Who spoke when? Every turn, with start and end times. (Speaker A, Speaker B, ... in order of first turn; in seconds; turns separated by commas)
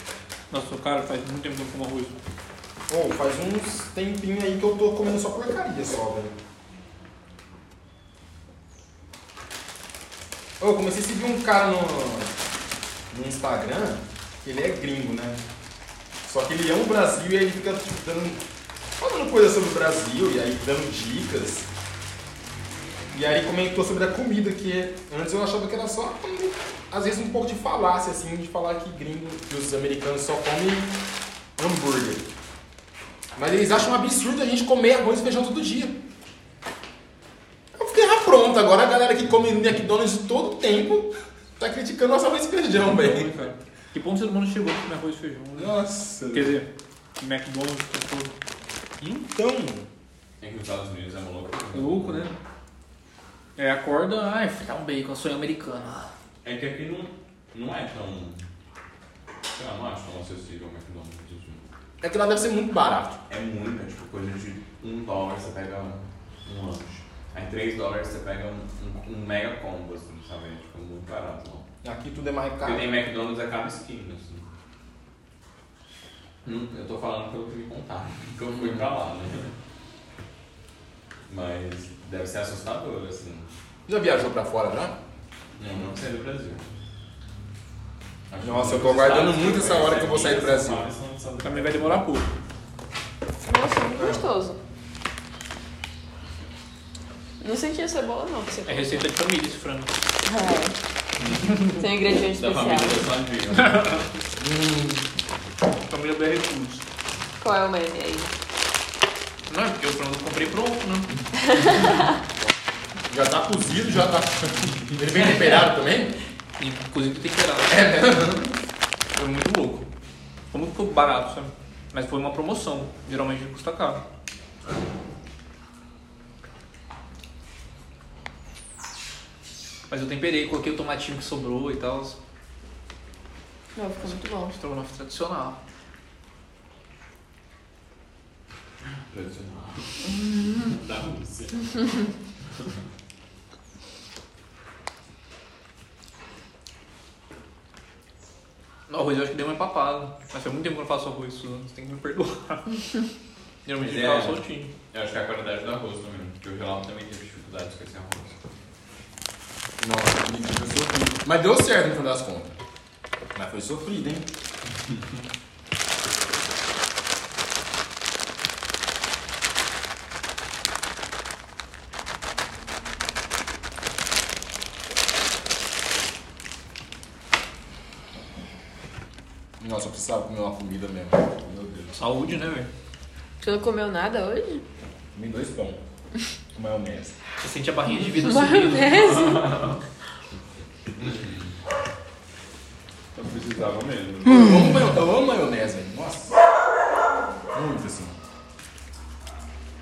Speaker A: 0.5-2.1, Speaker B: 2.9-6.3, Speaker B: 10.6-12.3, Speaker B: 13.1-15.4, Speaker B: 16.2-18.4, Speaker B: 19.0-21.7, Speaker B: 23.1-31.0, Speaker B: 31.6-32.2, Speaker B: 33.4-36.0, Speaker B: 37.8-43.3, Speaker A: 42.8-45.7, Speaker B: 45.6-46.6, Speaker A: 46.3-48.3, Speaker B: 49.0-49.9, Speaker C: 50.4-52.3, Speaker A: 51.7-52.3, Speaker A: 53.6-56.1, Speaker C: 56.4-58.4, Speaker C: 59.5-61.6, Speaker B: 62.0-63.2, Speaker C: 63.3-71.7, Speaker B: 71.8-72.9, Speaker C: 72.6-74.5, Speaker C: 76.4-79.5, Speaker B: 78.6-78.8, Speaker C: 81.3-83.5, Speaker B: 83.9-85.0, Speaker C: 85.6-86.7, Speaker C: 88.3-92.0, Speaker B: 88.4-90.9, Speaker A: 91.4-92.3, Speaker D: 93.4-94.6, Speaker B: 94.0-94.2, Speaker D: 97.4-99.1, Speaker A: 98.7-100.0, Speaker D: 100.2-100.8, Speaker C: 101.2-101.7, Speaker D: 101.6-103.0, Speaker C: 102.3-104.1, Speaker A: 103.6-104.0, Speaker B: 104.4-105.0, Speaker A: 105.9-106.8, Speaker D: 107.4-108.3, Speaker A: 109.5-111.1, Speaker D: 111.7-112.0, Speaker B: 113.1-116.2, Speaker A: 116.6-117.8, Speaker B: 117.7-118.5, Speaker A: 119.2-119.8, Speaker A: 120.5-124.0, Speaker A: 129.9-132.2, Speaker D: 133.8-134.6, Speaker A: 134.5-135.6, Speaker C: 139.1-141.5, Speaker D: 140.0-140.7, Speaker A: 148.9-152.9, Speaker A: 153.7-154.7, Speaker C: 153.8-158.3, Speaker B: 159.8-162.6, Speaker B: 163.3-164.3, Speaker B: 179.6-181.9, Speaker A: 181.9-182.7, Speaker D: 183.4-184.6, Speaker B: 185.2-185.8, Speaker B: 186.5-187.2, Speaker A: 187.4-189.1, Speaker D: 188.1-189.6, Speaker C: 189.0-189.8, Speaker C: 191.0-191.4, Speaker C: 193.2-194.5, Speaker B: 194.2-196.4, Speaker B: 197.5-198.2